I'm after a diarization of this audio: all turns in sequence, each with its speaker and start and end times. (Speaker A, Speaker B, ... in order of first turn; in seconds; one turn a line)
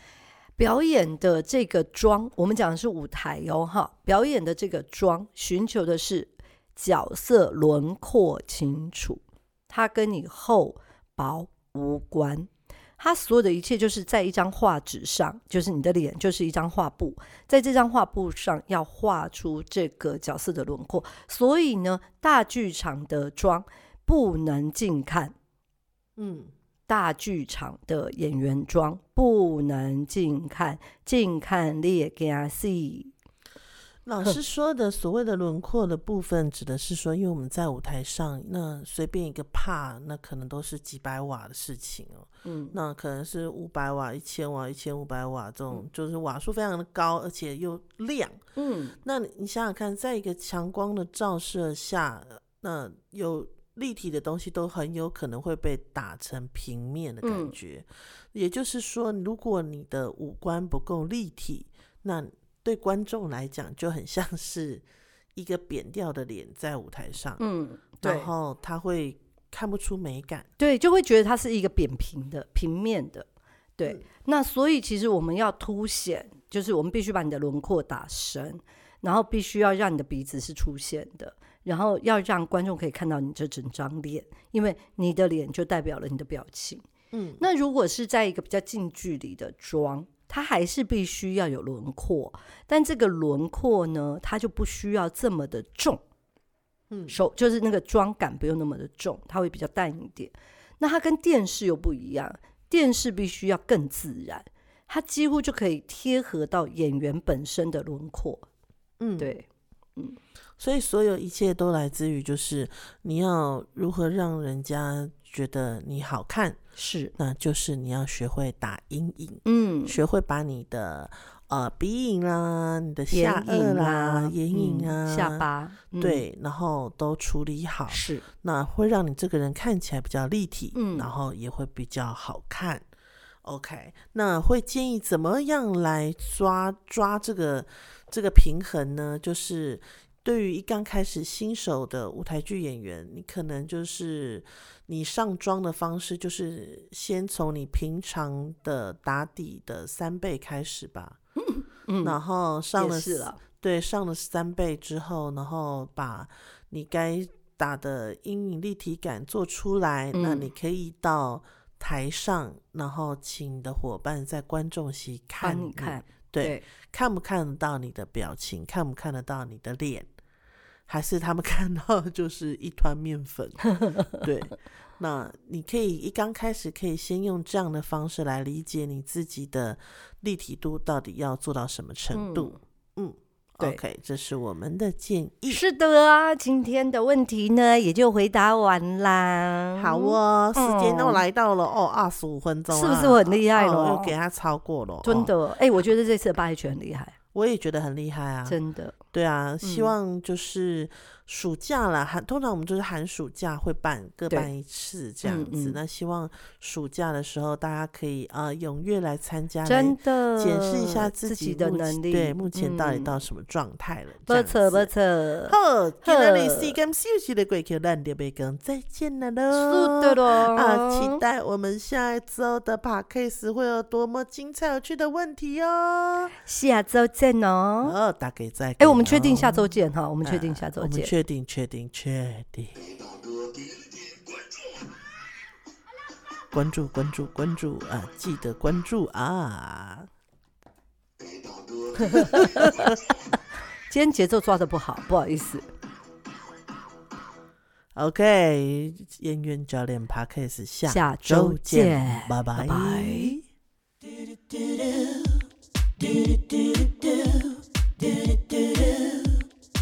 Speaker A: 0.6-25.4
Speaker B: 26.2-26.5
Speaker A: 26.9-33.1
Speaker B: 34.0-48.4
Speaker A: 42.5-42.8
Speaker A: 48.6-49.0
Speaker B: 49.0-64.8
Speaker A: 57.2-57.6
Speaker B: 65.3-67.4
Speaker A: 67.4-68.3
Speaker B: 68.0-70.5
Speaker A: 70.6-73.3
Speaker A: 73.8-86.8
Speaker B: 87.1-87.5
Speaker A: 87.4-96.0
Speaker B: 96.9-97.2
Speaker A: 97.1-108.5
Speaker B: 109.0-109.3
Speaker A: 109.2-109.5
Speaker B: 110.6-116.6
Speaker A: 116.8-117.1
Speaker B: 117.2-132.9
Speaker A: 119.5-120.0
Speaker A: 123.1-126.2
Speaker A: 127.9-128.2
Speaker A: 130.7-131.1
Speaker B: 133.4-151.2
Speaker A: 151.4-152.2
Speaker B: 152.0-170.1
Speaker A: 152.8-153.4
Speaker A: 160.1-160.5
Speaker A: 165.4-166.7
Speaker B: 170.9-185.6
Speaker A: 173.8-174.1
Speaker A: 182.1-182.6
Speaker A: 185.5-191.2
Speaker B: 189.8-195.3
Speaker A: 192.7-194.2
Speaker A: 195.0-197.2
Speaker B: 197.3-198.6
Speaker A: 198.5-199.0
Speaker B: 199.1-214.9
Speaker A: 199.6-199.9
Speaker A: 205.2-205.8
Speaker A: 209.7-213.2
Speaker A: 214.3-216.8
Speaker B: 215.5-226.3
Speaker A: 219.5-221.2
Speaker A: 226.4-228.0
Speaker B: 227.8-229.7
Speaker A: 228.8-231.1
Speaker B: 230.2-233.1
Speaker B: 236.5-240.1
Speaker B: 241.9-243.0
Speaker A: 242.0-243.0
Speaker A: 243.9-245.7
Speaker B: 247.9-253.4
Speaker A: 250.9-253.4
Speaker B: 254.2-255.4
Speaker B: 256.0-259.4